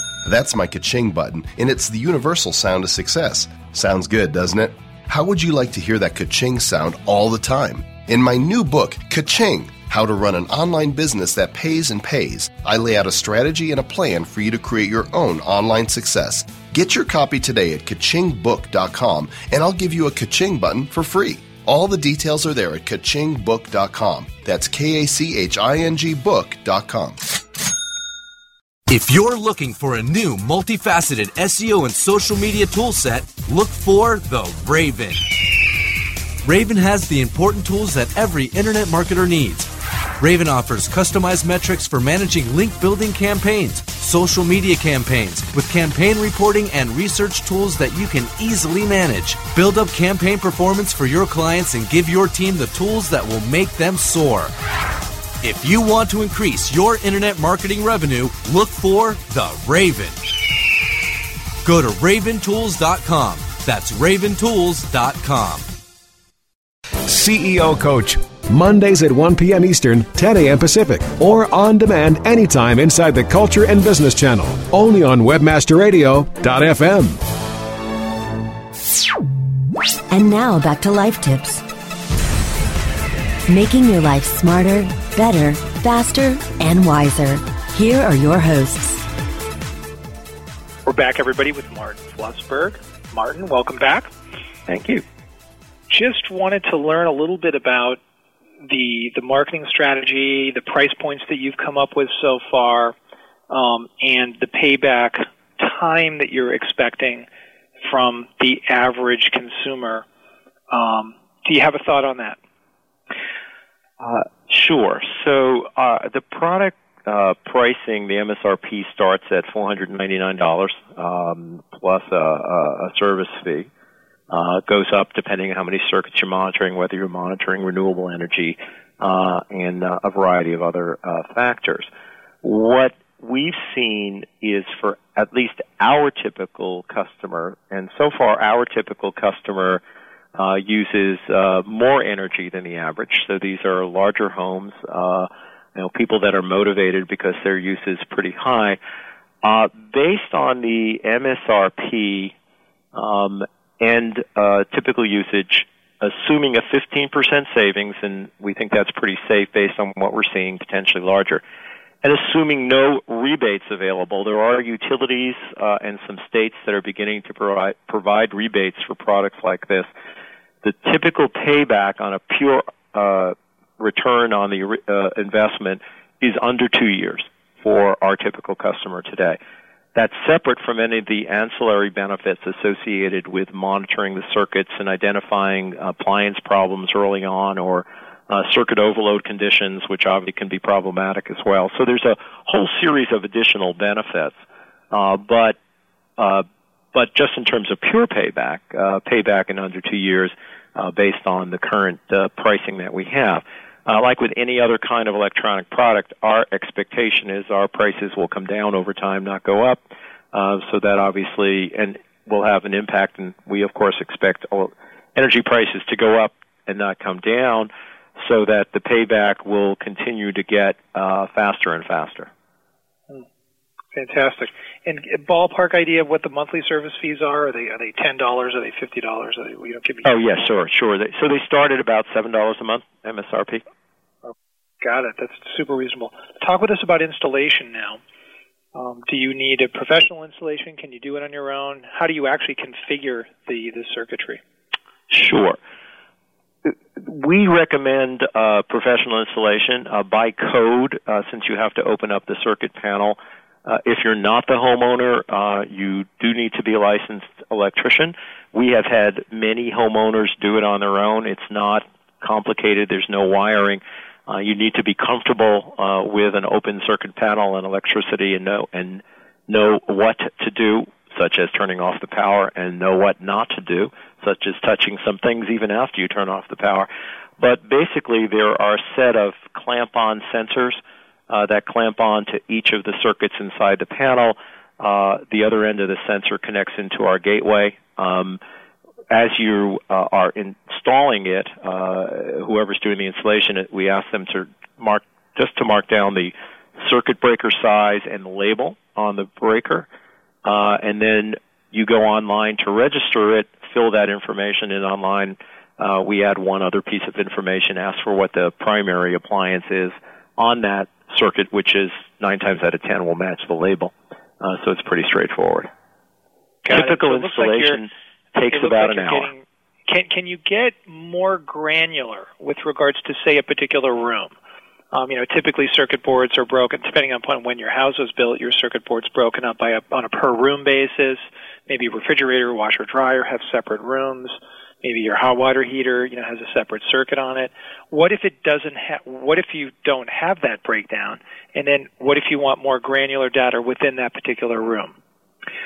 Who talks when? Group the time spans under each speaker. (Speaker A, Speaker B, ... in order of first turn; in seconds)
Speaker A: 0.2-27.2
Speaker B: 28.9-35.3, 36.4-54.5, 55.4-60.2, 61.6-65.7
Speaker C: 67.1-77.2
Speaker D: 80.1-81.6, 83.5-89.0
Speaker E: 90.8-94.1, 95.9-98.0, 98.6-102.9, 103.5-107.2, 107.8-110.0, 110.7-112.4, 223.9-230.4, 234.2-238.0, 238.7-244.4, 316.6-317.8, 318.5-324.3, 324.9-344.9
Speaker F: 94.7-95.0, 114.0-123.7, 124.3-131.9, 132.4-139.8, 140.3-148.8, 149.4-152.3, 152.9-161.4, 162.0-169.9, 170.6-179.4, 179.9-194.4, 194.9-195.6, 196.2-209.8, 210.3-222.3, 230.0-233.6, 245.1-245.6, 246.6-276.9, 277.4-288.4, 289.1-299.9, 300.4-315.7, 316.7-319.3